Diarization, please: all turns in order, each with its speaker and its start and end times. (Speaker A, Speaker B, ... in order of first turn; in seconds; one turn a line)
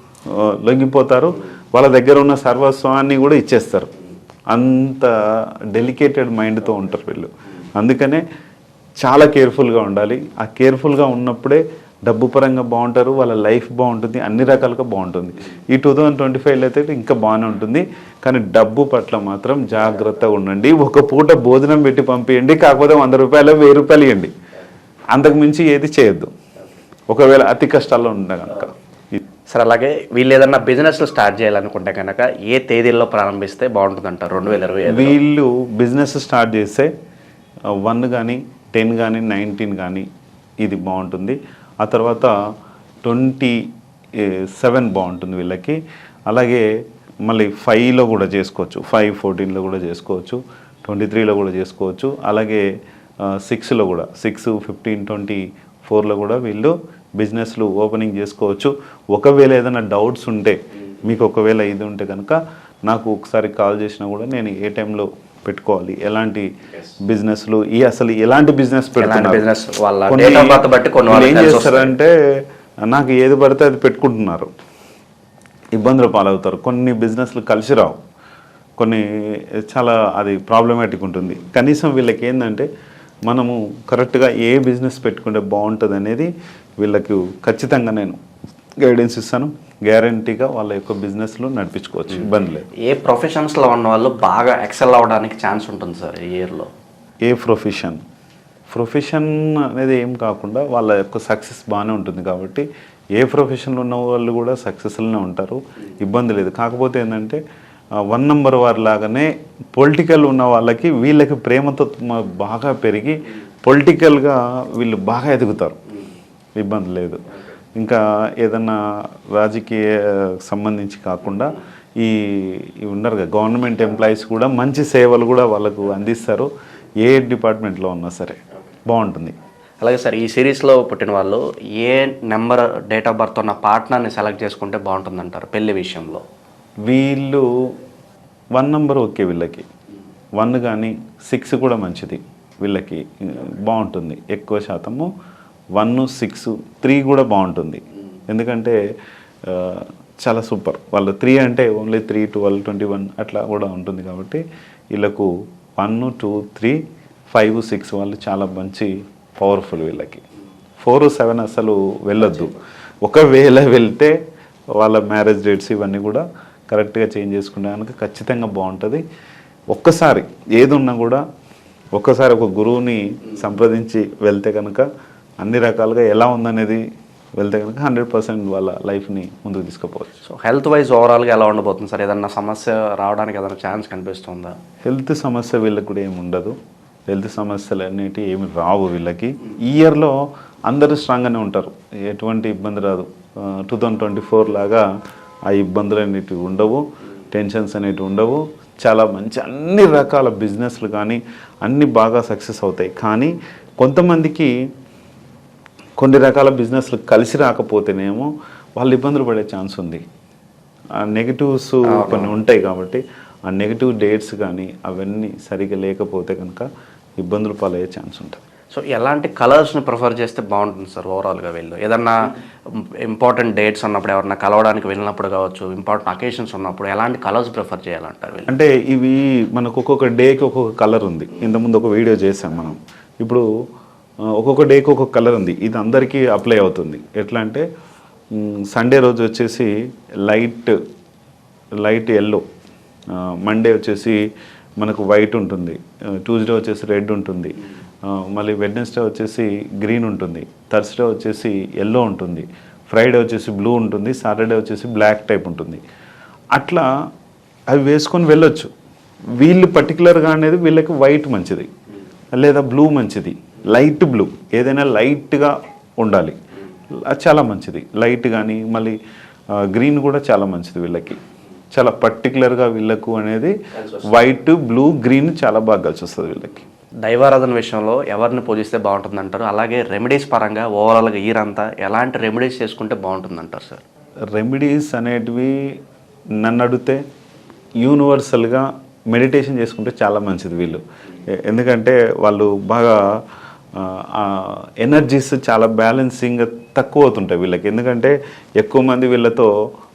Speaker A: 0.3-3.9
Speaker A: 4.5-5.1
Speaker A: 5.7-8.2
Speaker A: 9.0-24.3
Speaker A: 25.1-26.3
Speaker A: 27.1-29.2
Speaker B: 29.5-35.2
Speaker A: 34.9-36.9
Speaker A: 37.8-40.1
Speaker A: 40.6-42.4
Speaker A: 43.0-43.6
Speaker A: 44.2-46.6
Speaker A: 47.2-52.6
Speaker A: 53.2-66.5
Speaker A: 67.0-69.4
Speaker B: 69.0-71.9
Speaker A: 70.1-72.1
Speaker A: 72.8-74.5
Speaker A: 75.7-78.0
Speaker A: 78.8-82.7
Speaker A: 83.3-86.3
Speaker A: 86.8-88.2
Speaker A: 88.8-92.7
Speaker B: 92.8-96.7
Speaker A: 97.2-98.0
Speaker A: 98.7-107.4
Speaker A: 108.0-115.8
Speaker A: 116.6-117.2
Speaker A: 117.8-118.8
Speaker A: 119.3-126.5
Speaker A: 127.0-128.4
Speaker A: 128.9-129.3
Speaker B: 129.8-136.2
Speaker A: 136.8-137.4
Speaker A: 138.5-139.7
Speaker A: 140.4-145.1
Speaker A: 145.8-148.8
Speaker A: 149.4-156.8
Speaker A: 157.3-160.2
Speaker A: 160.8-164.2
Speaker A: 164.8-169.0
Speaker A: 169.7-171.2
Speaker A: 171.9-174.9
Speaker A: 175.4-176.8
Speaker A: 177.4-180.1
Speaker B: 180.2-184.6
Speaker A: 184.8-186.6
Speaker A: 187.1-194.8
Speaker A: 195.5-204.5
Speaker A: 206.0-210.0
Speaker A: 211.0-216.7
Speaker B: 211.8-212.3
Speaker A: 217.2-218.4
Speaker B: 218.7-228.5
Speaker A: 228.5-233.4
Speaker A: 234.3-237.6
Speaker A: 238.3-239.7
Speaker A: 240.2-240.8
Speaker A: 241.8-242.4
Speaker A: 243.1-244.2
Speaker A: 244.8-255.8
Speaker A: 256.5-256.9
Speaker A: 257.7-258.7
Speaker A: 259.4-261.7
Speaker A: 262.3-266.4
Speaker A: 267.1-269.0
Speaker A: 269.5-271.2
Speaker A: 271.7-276.6
Speaker B: 277.1-283.8
Speaker A: 284.3-285.6
Speaker A: 286.4-287.0
Speaker A: 287.8-290.8
Speaker A: 291.4-293.2
Speaker A: 293.7-299.5